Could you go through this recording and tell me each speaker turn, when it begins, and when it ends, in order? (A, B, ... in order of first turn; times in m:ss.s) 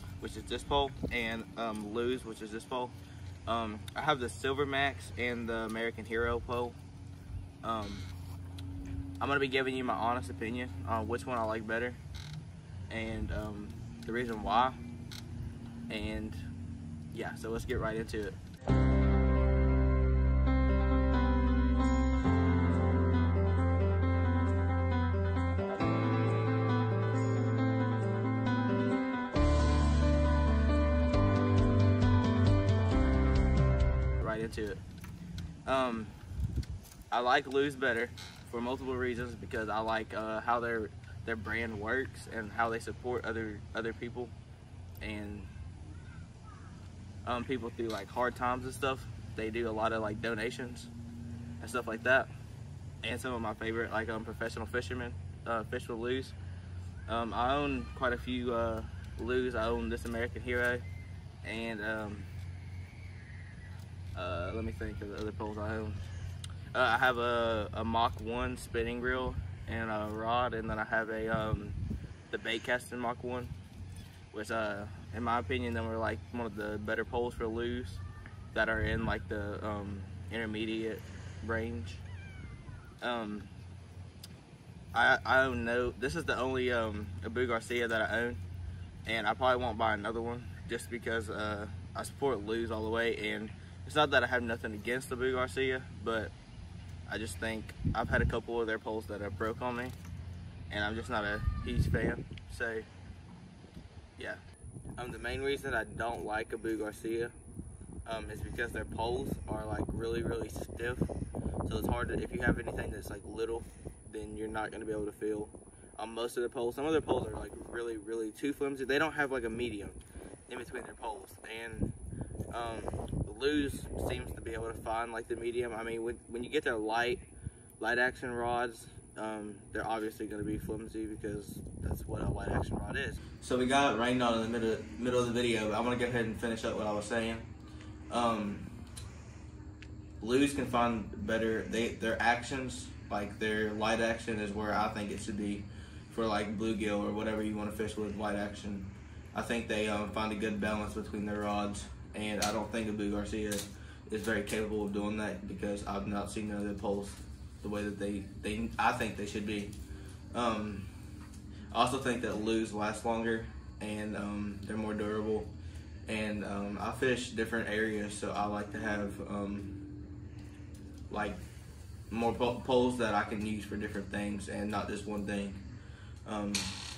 0:00.2-0:03.0 A
0:03.5-0:06.8 A
0:07.6-0:08.1 A
0:09.2-0:12.0 A
0:12.9-0:14.8 A
0:15.9-0:16.4 A
0:17.1-0:18.4 A
0:34.2-0:34.8 A
0:35.7-0:36.1 A
0:37.1-0:44.3 A
0:45.0-0:45.5 A
0:47.2-0:50.9 A
0:51.6-0:52.3 A
0:53.0-0:56.4 A
0:57.1-1:00.8 A
1:01.4-1:02.3 A
1:04.2-1:06.0 A
1:06.7-1:11.8 A
1:12.3-1:13.5 A
1:14.3-1:22.0 A
1:23.0-1:23.5 A
1:24.9-1:28.4 A
1:29.0-1:36.3 A
1:37.1-1:40.0 A
1:40.7-1:42.9 A
1:45.0-1:47.4 A
1:48.0-1:51.1 A
1:51.6-2:01.9 A
2:02.5-2:07.3 A
2:07.8-2:17.5 A
2:18.1-2:18.7 A
2:20.2-2:39.8 A
2:40.3-2:40.9 A
2:41.7-2:49.8 A
2:51.1-2:51.4 A
2:52.1-2:55.7 A
2:56.3-2:56.8 A